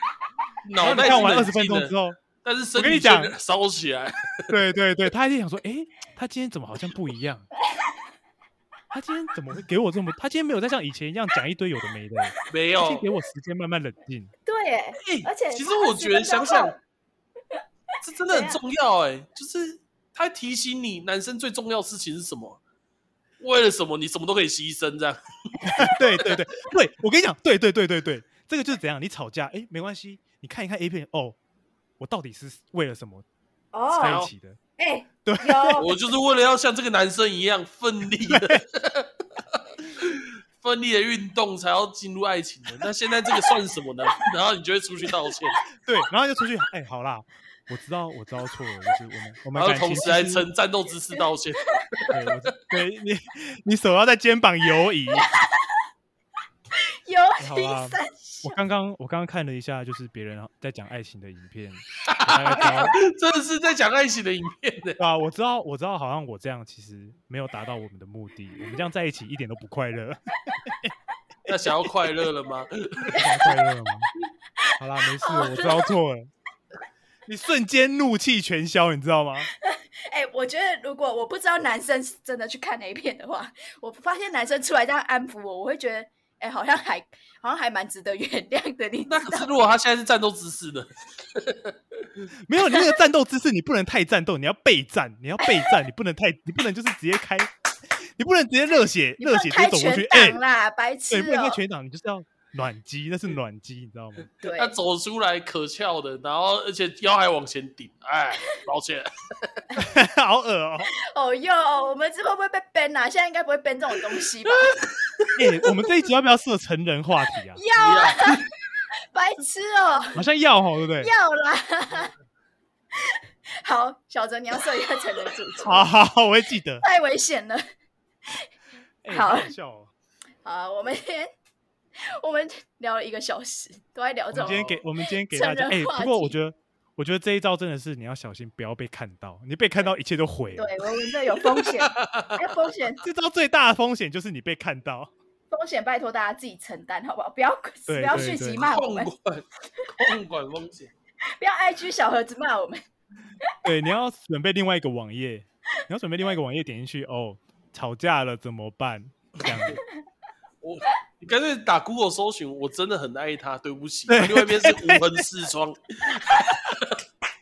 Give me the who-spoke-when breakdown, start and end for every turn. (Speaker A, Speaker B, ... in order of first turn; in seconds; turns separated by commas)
Speaker A: 0.6-4.5, Speaker B: 0.8-2.2, Speaker B: 2.8-3.3, Speaker B: 4.5-7.5, Speaker C: 7.6-7.9, Speaker B: 8.9-14.3, Speaker A: 12.5-13.1, Speaker C: 14.4-16.8, Speaker A: 15.0-16.8, Speaker A: 18.0-22.6, Speaker C: 18.3-18.6, Speaker A: 23.4-25.9, Speaker B: 25.6-31.4, Speaker B: 32.0-33.3, Speaker C: 33.7-34.2, Speaker B: 33.9-34.6, Speaker A: 34.0-34.3, Speaker C: 34.8-36.0, Speaker B: 35.2-35.9, Speaker A: 35.8-45.6, Speaker B: 38.3-38.6, Speaker B: 45.9-50.5, Speaker A: 49.5-52.2, Speaker B: 52.1-55.3, Speaker C: 55.2-55.8, Speaker C: 56.8-58.6, Speaker B: 57.4-63.0, Speaker A: 62.1-65.0, Speaker B: 65.0-70.9, Speaker A: 71.5-73.3, Speaker B: 73.1-74.1, Speaker C: 74.6-75.9, Speaker B: 74.8-76.3, Speaker B: 77.3-79.5, Speaker C: 79.5-89.6, Speaker A: 89.1-92.3, Speaker B: 92.5-97.5, Speaker C: 95.4-95.7, Speaker B: 98.2-100.4, Speaker C: 99.2-101.6, Speaker B: 101.1-104.3, Speaker C: 104.4-104.7, Speaker A: 104.4-109.6, Speaker B: 109.8-110.9, Speaker C: 111.0-114.8, Speaker A: 114.5-115.4, Speaker B: 115.4-117.6, Speaker C: 117.5-118.4, Speaker A: 117.8-118.5, Speaker C: 119.1-120.2, Speaker B: 120.2-121.1, Speaker C: 121.0-122.1, Speaker C: 122.9-125.9, Speaker B: 125.6-126.8, Speaker C: 126.8-127.6, Speaker B: 129.0-129.9, Speaker C: 129.1-129.6, Speaker C: 130.4-131.3, Speaker C: 132.0-136.3, Speaker B: 134.3-140.8, Speaker A: 134.4-134.7, Speaker C: 140.6-143.0, Speaker A: 141.4-142.6, Speaker B: 143.0-145.1, Speaker C: 145.5-149.1, Speaker B: 147.9-148.6, Speaker A: 148.1-150.9, Speaker C: 151.4-152.8, Speaker B: 153.6-159.8, Speaker A: 160.6-167.0, Speaker B: 164.1-165.3